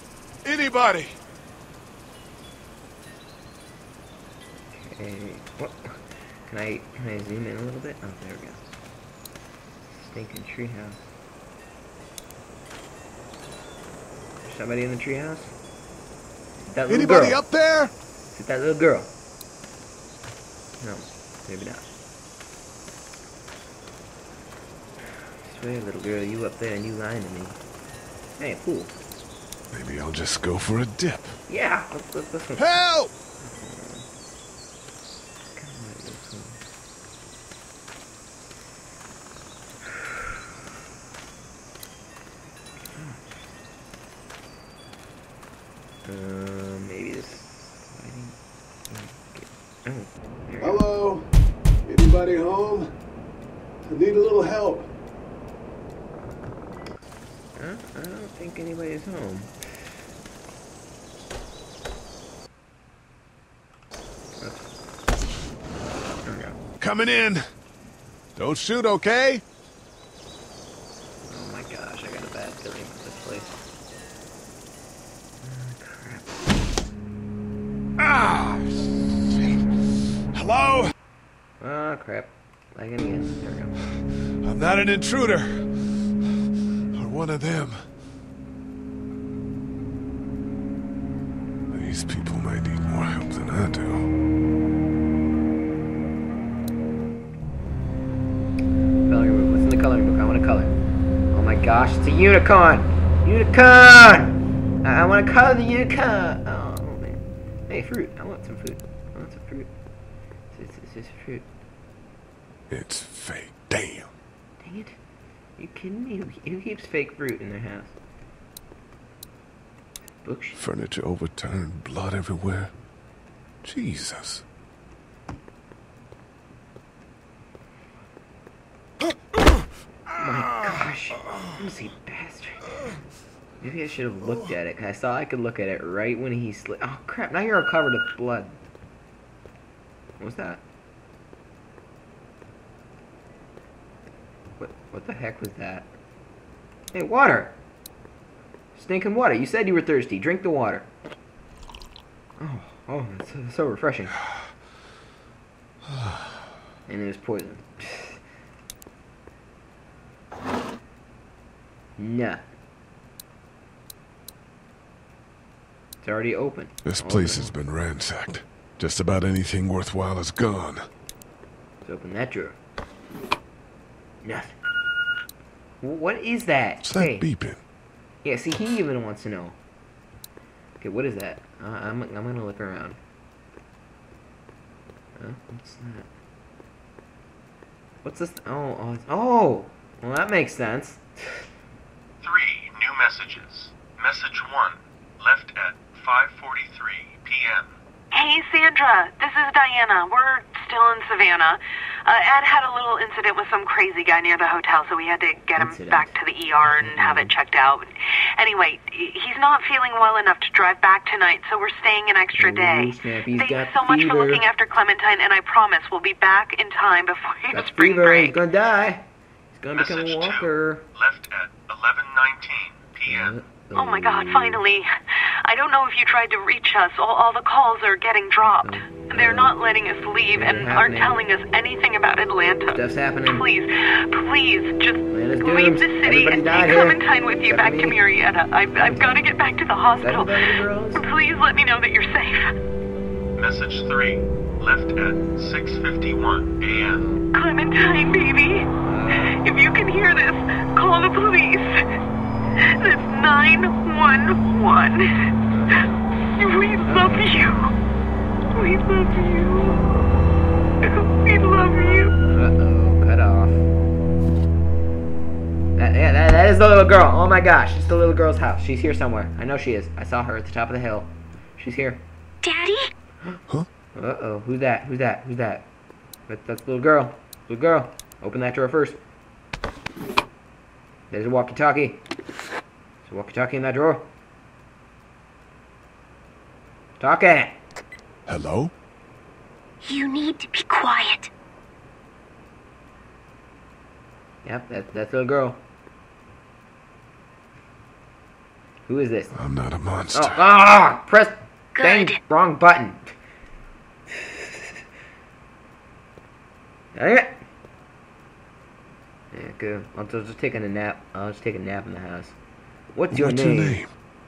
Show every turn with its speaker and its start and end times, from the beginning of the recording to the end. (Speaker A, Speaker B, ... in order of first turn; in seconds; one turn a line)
Speaker A: 0.4-1.1
Speaker B: 4.7-6.0
Speaker B: 6.5-8.6
Speaker B: 9.9-11.0
Speaker B: 14.4-15.5
Speaker B: 16.7-17.4
Speaker A: 16.9-17.9
Speaker B: 18.3-19.1
Speaker B: 20.8-21.9
Speaker B: 25.4-27.6
Speaker B: 28.4-28.9
Speaker A: 29.7-31.4
Speaker B: 31.5-32.8
Speaker A: 32.6-33.1
Speaker B: 33.4-34.1
Speaker B: 35.5-36.6
Speaker B: 42.9-43.2
Speaker B: 46.0-48.4
Speaker B: 48.9-50.9
Speaker A: 50.6-51.2
Speaker A: 51.9-52.9
Speaker A: 53.9-54.8
Speaker B: 57.5-59.5
Speaker B: 64.4-64.7
Speaker B: 66.2-66.6
Speaker A: 66.8-67.4
Speaker A: 68.4-69.4
Speaker B: 71.3-73.5
Speaker B: 75.4-76.3
Speaker A: 78.0-78.8
Speaker A: 80.3-80.9
Speaker B: 81.6-83.7
Speaker A: 84.4-85.6
Speaker A: 86.9-87.8
Speaker A: 91.7-94.1
Speaker B: 99.1-100.7
Speaker B: 101.3-109.7
Speaker B: 110.5-111.5
Speaker A: 112.7-114.1
Speaker B: 114.6-115.0
Speaker B: 115.6-117.9
Speaker B: 120.2-120.6
Speaker A: 120.5-122.7
Speaker A: 123.6-124.4
Speaker B: 130.1-132.9
Speaker B: 133.6-138.6
Speaker B: 140.2-140.6
Speaker B: 144.6-145.9
Speaker B: 146.9-147.5
Speaker B: 148.7-150.9
Speaker B: 152.4-154.2
Speaker B: 156.9-158.2
Speaker B: 162.0-162.4
Speaker B: 166.0-167.5
Speaker A: 166.8-170.9
Speaker B: 171.8-172.6
Speaker B: 174.2-174.5
Speaker B: 175.8-177.3
Speaker A: 176.8-177.6
Speaker B: 178.2-179.6
Speaker B: 180.8-183.0
Speaker B: 185.2-186.1
Speaker B: 188.0-191.4
Speaker C: 192.2-197.7
Speaker D: 198.1-218.3
Speaker B: 205.6-207.3
Speaker B: 212.3-214.4
Speaker B: 217.5-220.8
Speaker C: 219.7-223.3
Speaker B: 223.1-224.6
Speaker D: 223.7-224.8
Speaker D: 225.4-240.4
Speaker B: 228.6-229.5
Speaker B: 230.3-231.2
Speaker B: 232.7-233.5
Speaker B: 235.1-238.0
Speaker B: 238.8-239.2
Speaker B: 240.0-241.1
Speaker D: 240.9-242.5
Speaker C: 243.4-247.0
Speaker B: 246.7-247.3
Speaker D: 247.3-248.7
Speaker B: 248.8-249.4
Speaker D: 249.3-251.7
Speaker D: 252.8-255.1
Speaker B: 255.5-256.0
Speaker D: 256.4-257.7
Speaker B: 256.9-257.6
Speaker D: 258.5-259.8
Speaker D: 260.8-262.1
Speaker B: 262.2-263.6
Speaker B: 265.8-272.0
Speaker E: 272.4-272.9
Speaker B: 273.9-275.7
Speaker B: 276.3-279.0
Speaker B: 281.1-282.0
Speaker B: 283.0-284.1
Speaker B: 287.0-287.6
Speaker A: 288.3-288.7
Speaker E: 289.8-291.3
Speaker B: 294.4-295.6
Speaker B: 298.9-299.4
Speaker A: 299.3-300.4
Speaker B: 300.1-303.1
Speaker E: 301.7-302.2
Speaker B: 306.9-307.4
Speaker B: 309.3-312.3
Speaker B: 312.9-313.8
Speaker A: 313.1-313.9